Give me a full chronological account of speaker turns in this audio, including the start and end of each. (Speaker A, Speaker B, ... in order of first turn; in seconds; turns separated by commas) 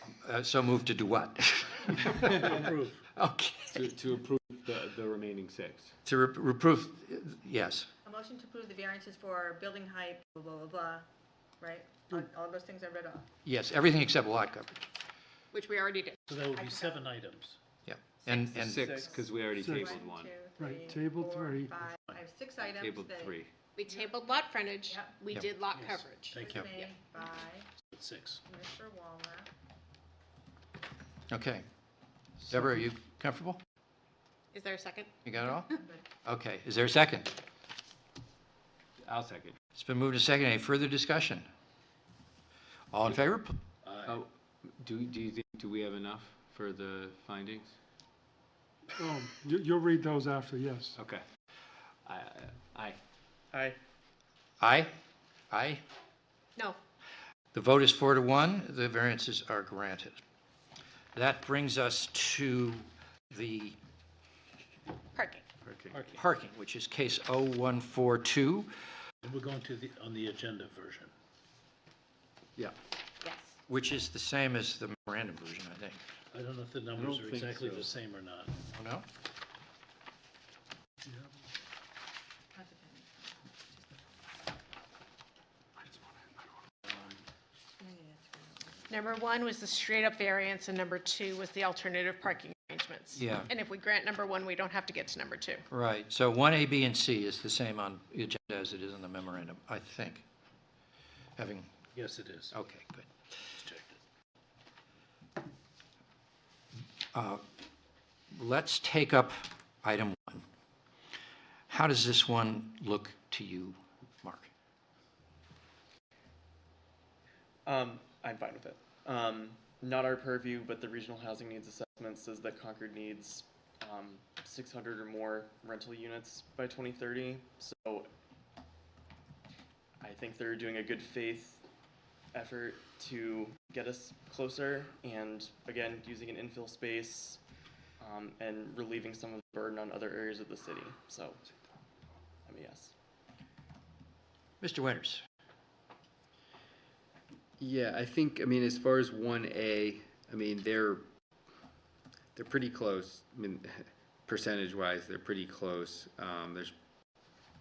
Speaker A: 0.2-2.6, Speaker B: 2.3-3.0, Speaker A: 3.2-3.9, Speaker C: 3.7-5.9, Speaker A: 6.0-7.9, Speaker D: 8.1-11.1, Speaker D: 11.6-13.3, Speaker A: 13.4-14.8, Speaker E: 15.5-16.2, Speaker B: 16.3-17.6, Speaker A: 17.9-18.9, Speaker D: 18.3-23.4, Speaker C: 18.5-20.4, Speaker F: 19.5-20.0, Speaker F: 20.6-21.8, Speaker B: 21.9-22.2, Speaker C: 22.6-23.5, Speaker E: 23.8-26.9, Speaker B: 25.7-26.7, Speaker D: 26.4-27.7, Speaker B: 27.8-28.4, Speaker D: 28.5-29.5, Speaker A: 31.3-31.6, Speaker A: 32.4-33.6, Speaker E: 34.5-35.1, Speaker A: 35.2-35.7, Speaker D: 35.7-36.0, Speaker A: 36.2-37.3, Speaker C: 39.0-39.6, Speaker A: 39.8-41.5, Speaker A: 42.9-43.6, Speaker B: 43.8-44.2, Speaker C: 44.0-47.7, Speaker F: 49.0-51.0, Speaker C: 51.0-51.2, Speaker C: 52.1-53.0, Speaker G: 53.5-53.8, Speaker A: 54.6-54.9, Speaker A: 55.5-55.8, Speaker A: 57.5-60.2, Speaker A: 61.1-63.8, Speaker E: 65.2-65.4, Speaker C: 65.6-66.2, Speaker B: 65.9-66.2, Speaker A: 66.2-68.7, Speaker B: 69.2-71.1, Speaker E: 73.2-73.6, Speaker A: 73.7-76.0, Speaker B: 76.3-78.5, Speaker H: 77.1-77.5, Speaker A: 78.7-79.1, Speaker D: 82.5-84.1, Speaker D: 87.8-88.9, Speaker E: 88.9-95.6, Speaker A: 93.2-93.5, Speaker A: 95.7-100.2, Speaker A: 101.4-101.7, Speaker B: 102.0-102.6, Speaker A: 102.5-103.1, Speaker B: 103.5-104.0, Speaker A: 107.1-107.4, Speaker A: 108.3-110.5, Speaker A: 111.7-114.5, Speaker G: 117.7-128.1, Speaker G: 130.0-131.6, Speaker G: 132.3-137.4, Speaker G: 138.0-141.4, Speaker G: 142.5-142.9, Speaker A: 144.6-145.2, Speaker H: 147.6-151.0, Speaker H: 152.4-156.7